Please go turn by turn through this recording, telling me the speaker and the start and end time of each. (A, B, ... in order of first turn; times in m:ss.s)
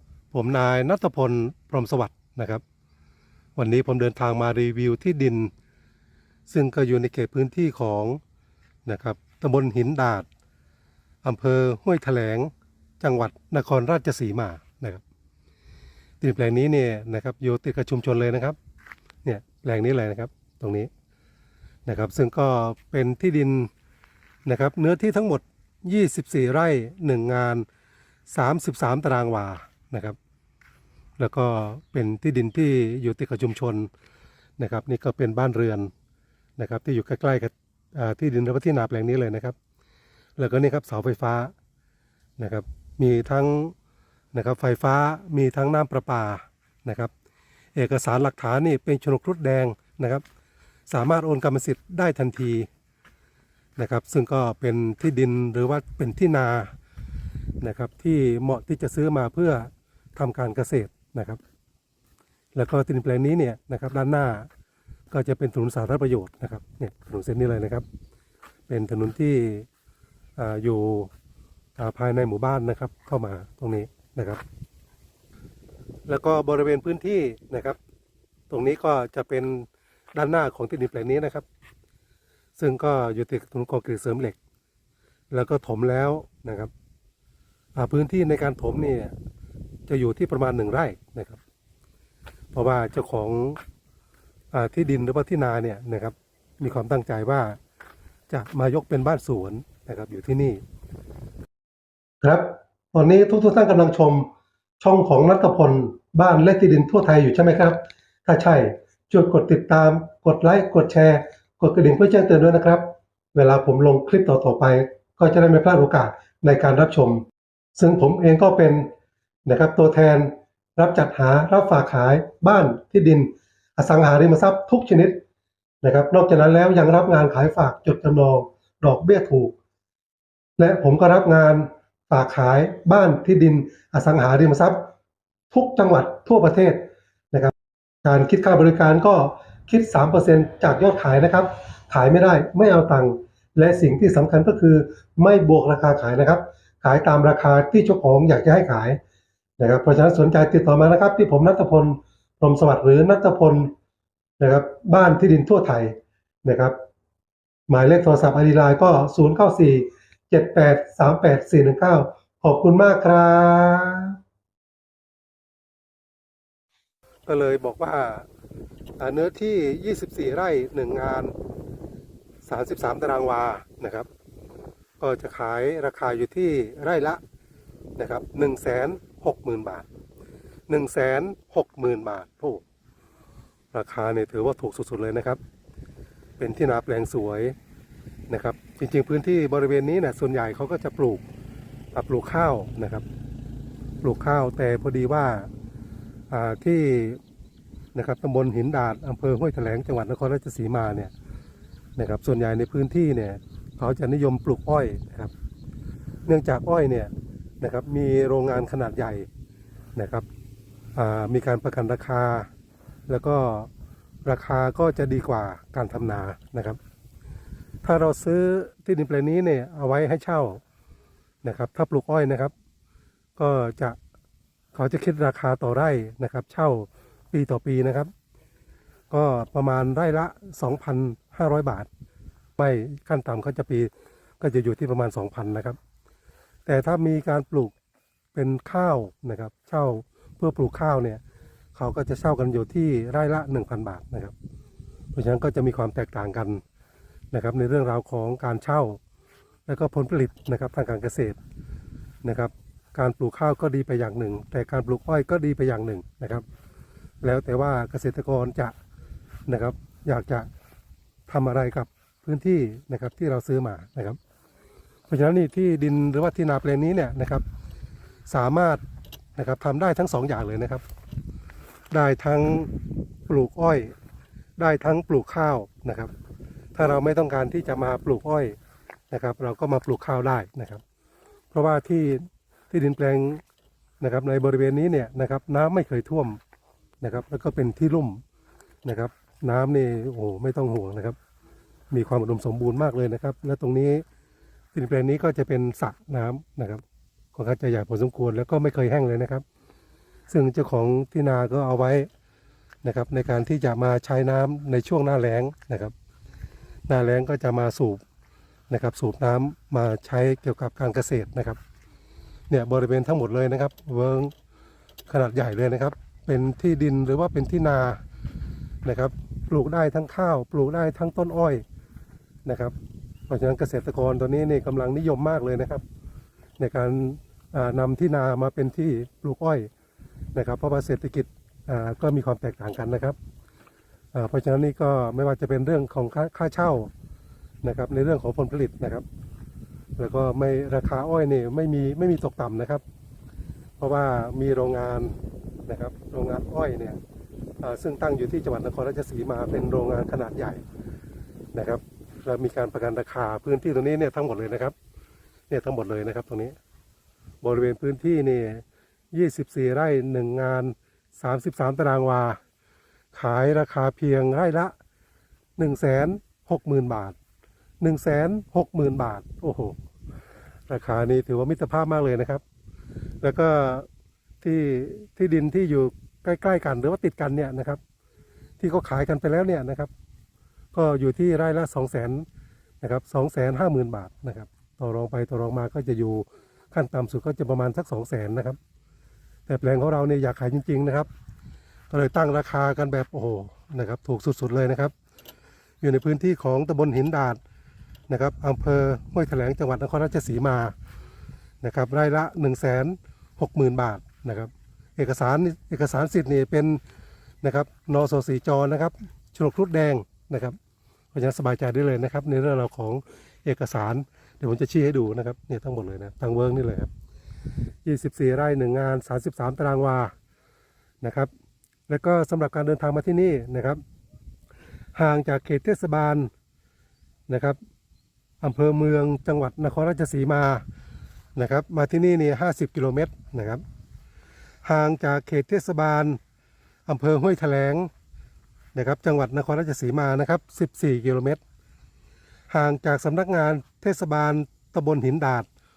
0:00.3-0:02.6 A
0:03.6-0:05.5 A
0:06.5-0:08.2 A
0:08.8-0:10.3 A
0:11.2-0:15.0 A
0:16.2-0:18.6 A
0:19.2-0:20.9 A
0:21.8-0:23.7 A
0:24.4-0:27.6 A
0:28.3-0:30.2 A
0:31.2-0:33.9 A
0:34.6-0:35.9 A
0:36.6-0:39.6 A
0:40.4-0:41.5 A
0:42.4-0:43.7 A
0:44.3-0:47.1 A
0:47.7-0:50.2 A
0:50.9-0:52.7 A
0:53.8-0:56.7 A
0:57.6-1:01.4 A
1:02.5-1:04.5 A
1:05.1-1:07.8 A
1:08.7-1:09.7 A
1:10.4-1:11.1 A
1:11.8-1:14.4 A
1:16.1-1:17.8 A
1:18.5-1:21.4 A
1:22.6-1:24.4 A
1:25.3-1:26.7 A
1:27.7-1:29.1 A
1:29.9-1:31.4 A
1:32.5-1:33.6 A
1:34.5-1:37.6 A
1:38.3-1:40.6 A
1:42.2-1:58.9 A
1:59.4-2:05.2 A
2:05.8-2:09.5 A
2:10.6-2:14.9 A
2:15.5-2:17.5 A
2:18.0-2:29.0 A
2:29.6-2:33.7 A
2:34.4-2:36.8 A
2:37.7-2:44.2 A
2:47.2-2:48.3 A
2:49.0-2:51.3 A
2:52.4-2:54.1 A
2:55.0-2:57.2 A
2:58.0-2:59.9 A
3:00.7-3:02.6 A
3:03.7-3:05.4 A
3:06.4-3:07.5 A
3:08.3-3:11.2 A
3:11.9-3:13.0 A
3:14.0-3:15.5 A
3:16.3-3:17.2 A
3:17.9-3:21.1 A
3:22.0-3:25.3 A
3:26.2-3:29.3 A
3:29.9-3:30.3 A
3:30.9-3:32.5 A
3:33.1-3:33.7 A
3:34.2-3:36.8 A
3:37.8-3:40.6 A
3:41.4-3:42.5 A
3:43.4-3:44.0 A
3:44.7-3:48.1 A
3:49.1-3:51.9 A
3:52.6-3:55.8 A
3:56.6-3:57.7 A
3:58.3-4:01.2 A
4:01.7-4:04.3 A
4:05.1-4:06.6 A
4:07.3-4:09.0 A
4:09.7-4:11.4 A
4:12.2-4:16.4 A
4:17.2-4:18.8 A
4:19.5-4:20.5 A
4:21.3-4:24.2 A
4:25.1-4:27.4 A
4:28.3-4:28.8 A
4:29.4-4:30.8 A
4:31.9-4:32.7 A
4:33.3-4:33.9 A
4:34.6-4:36.1 A
4:36.7-4:38.6 A
4:39.1-4:40.8 A
4:41.5-4:43.4 A
4:44.0-4:46.4 A
4:47.0-4:48.2 A
4:48.8-4:51.2 A
4:51.9-4:54.0 A
4:54.7-4:56.8 A
4:57.3-4:59.4 A
5:00.3-5:02.1 A
5:02.8-5:05.9 A
5:06.9-5:08.0 A
5:08.7-5:11.6 A
5:12.5-5:14.3 A
5:15.1-5:18.0 A
5:18.8-5:21.6 A
5:22.4-5:22.7 A
5:23.3-5:25.8 A
5:26.6-5:29.7 A
5:30.3-5:33.2 A
5:34.1-5:36.9 A
5:37.6-5:39.0 A
5:40.0-5:42.8 A
5:43.8-5:47.0 A
5:47.6-5:50.6 A
5:51.5-5:54.7 A
5:55.5-5:56.6 A
5:57.4-6:02.4 A
6:03.1-6:04.7 A
6:05.6-6:07.2 A
6:07.8-6:09.8 A
6:10.7-6:12.4 A
6:13.2-6:13.9 A
6:14.4-6:17.8 A
6:18.6-6:19.9 A
6:20.7-6:22.2 A
6:22.8-6:28.6 A
6:29.4-6:31.1 A
6:31.9-6:34.9 A
6:35.8-6:37.4 A
6:38.1-6:40.7 A
6:41.6-6:46.8 A
6:47.4-6:50.6 A
6:51.1-6:56.9 A
6:57.8-7:00.1 A
7:01.0-7:01.3 A
7:01.9-7:03.8 A
7:04.9-7:06.3 A
7:07.3-7:07.6 A
7:08.4-7:10.6 A
7:11.3-7:13.6 A
7:14.6-7:16.2 A
7:16.8-7:17.9 A
7:18.7-7:21.4 A
7:22.5-7:25.5 A